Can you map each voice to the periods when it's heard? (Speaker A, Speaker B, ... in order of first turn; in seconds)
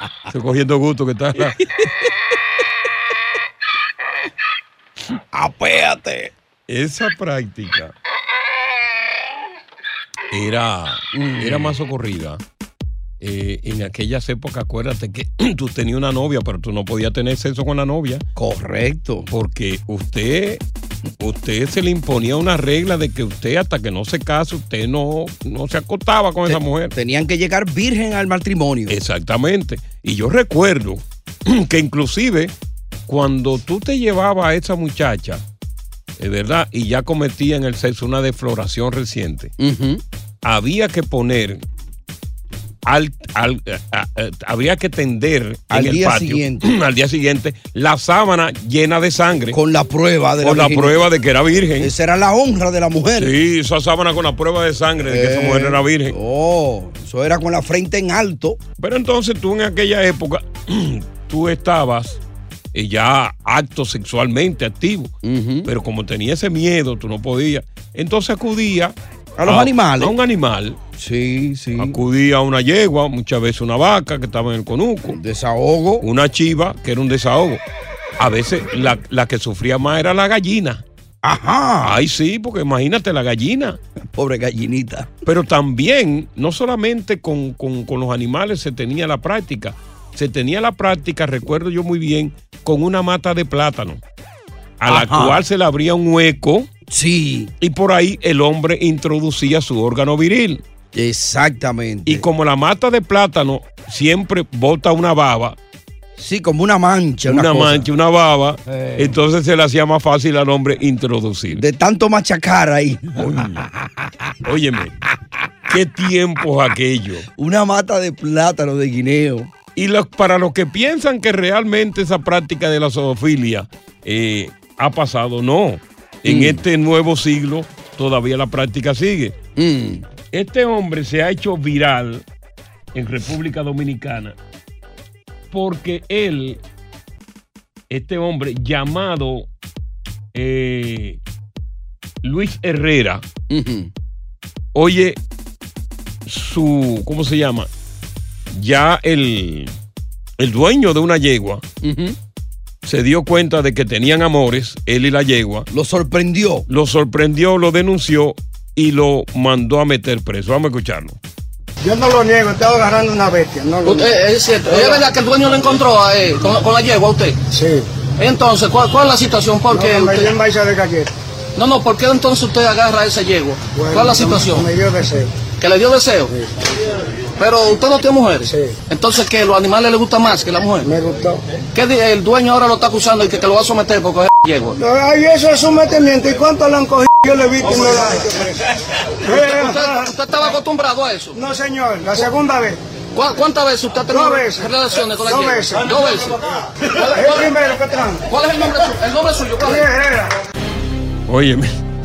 Speaker A: 0.3-1.6, 6.7-7.9, 10.3-12.4, 13.2-18.2, 19.3-20.6, 21.2-26.9, 28.9-32.5, 33.1-35.4, 36.2-39.5, 40.4-41.6, 42.9-49.6, 50.4-51.9, 53.2-56.1, 58.8-62.2, 62.7-65.1, 65.7-70.8, 71.8-75.2, 76.0-77.6, 78.2-80.8, 81.8-83.8, 85.2-94.0, 94.8-96.7, 97.6-100.6, 102.1-105.6, 107.3-111.6, 113.2-113.7, 114.4-114.9, 115.7-117.3, 119.8-129.3, 130.3-132.2, 132.9-134.3, 135.5-136.6, 137.9-139.5, 140.3-141.2, 142.2-143.2, 144.8-145.2, 146.3-147.7, 148.5-149.7, 150.4-151.6, 152.8-155.7, 156.7-161.2, 201.3-201.7
Speaker B: 1.4-1.9, 5.3-6.3, 11.1-11.8, 18.4-19.3, 26.5-29.0, 39.6-40.0, 45.7-46.8, 49.5-51.1, 51.8-53.3, 55.0-58.6, 65.2-65.7, 69.4-70.2, 71.0-72.0, 75.1-76.1, 81.2-82.0, 84.1-85.1, 94.9-95.4, 96.9-97.5, 100.9-102.3, 106.2-107.9, 108.7-109.2, 111.5-114.3, 117.4-119.5, 126.2-126.6, 129.6-130.1, 143.5-143.9, 151.8-152.2, 155.7-156.7
Speaker C: 161.8-164.2, 164.7-165.1, 167.5-167.9, 169.7-171.1, 173.8-175.3, 178.5-178.8, 180.8-181.4, 184.8-188.6, 189.2-190.1, 191.3-192.8, 194.1-194.7, 195.2-195.9, 197.0-198.3, 199.6-200.3
Speaker D: 163.8-167.4, 168.2-170.4, 171.6-174.7, 175.6-176.3, 177.4-180.9, 181.7-184.8, 189.3-191.4, 193.2-197.5, 198.3-199.9